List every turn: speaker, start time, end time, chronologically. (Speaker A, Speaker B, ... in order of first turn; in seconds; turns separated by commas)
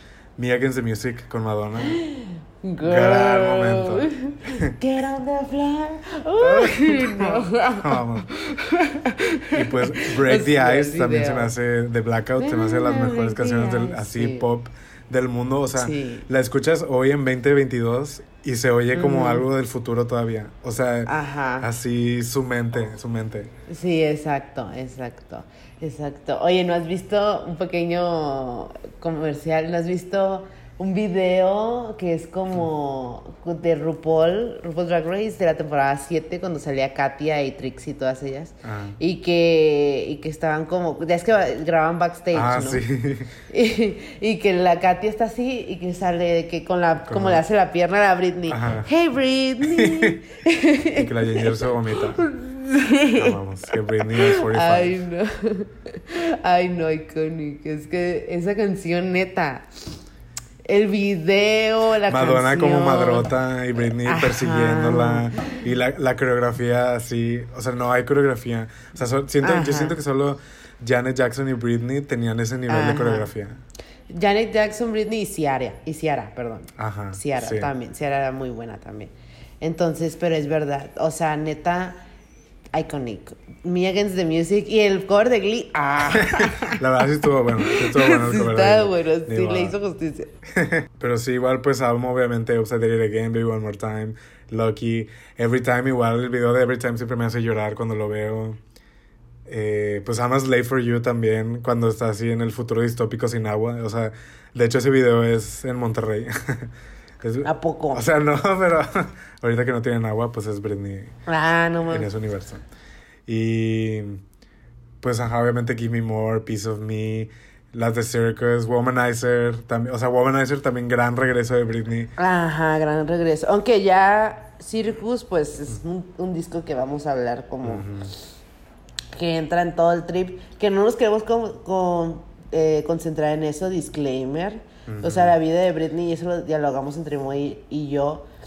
Speaker A: 0.4-2.0, Speaker B: 1.8-11.5, Speaker A: 2.8-4.7, Speaker A: 6.4-8.3, Speaker A: 9.5-23.5, Speaker B: 12.4-14.4, Speaker B: 15.8-16.3, Speaker B: 18.9-19.4, Speaker B: 21.1-21.7, Speaker B: 23.7-42.8, Speaker A: 38.6-39.0, Speaker A: 42.3-43.3, Speaker B: 43.5-59.7, Speaker A: 47.1-47.4, Speaker A: 48.5-48.9, Speaker A: 49.6-50.2, Speaker A: 51.0-52.2, Speaker A: 53.2-55.0, Speaker B: 60.7-63.3, Speaker A: 62.1-73.6, Speaker B: 64.0-65.6, Speaker B: 69.4-70.0, Speaker B: 72.7-73.3, Speaker B: 74.1-82.0, Speaker A: 76.8-77.7, Speaker B: 82.7-86.8, Speaker A: 86.1-89.8, Speaker B: 87.5-90.3, Speaker A: 90.5-98.6, Speaker A: 99.5-111.1, Speaker B: 107.4-108.0, Speaker B: 111.3-112.1, Speaker A: 111.9-112.6, Speaker A: 113.3-114.2, Speaker A: 115.0-122.1, Speaker B: 122.2-127.9, Speaker A: 127.6-128.1, Speaker B: 129.1-138.3, Speaker A: 134.9-135.4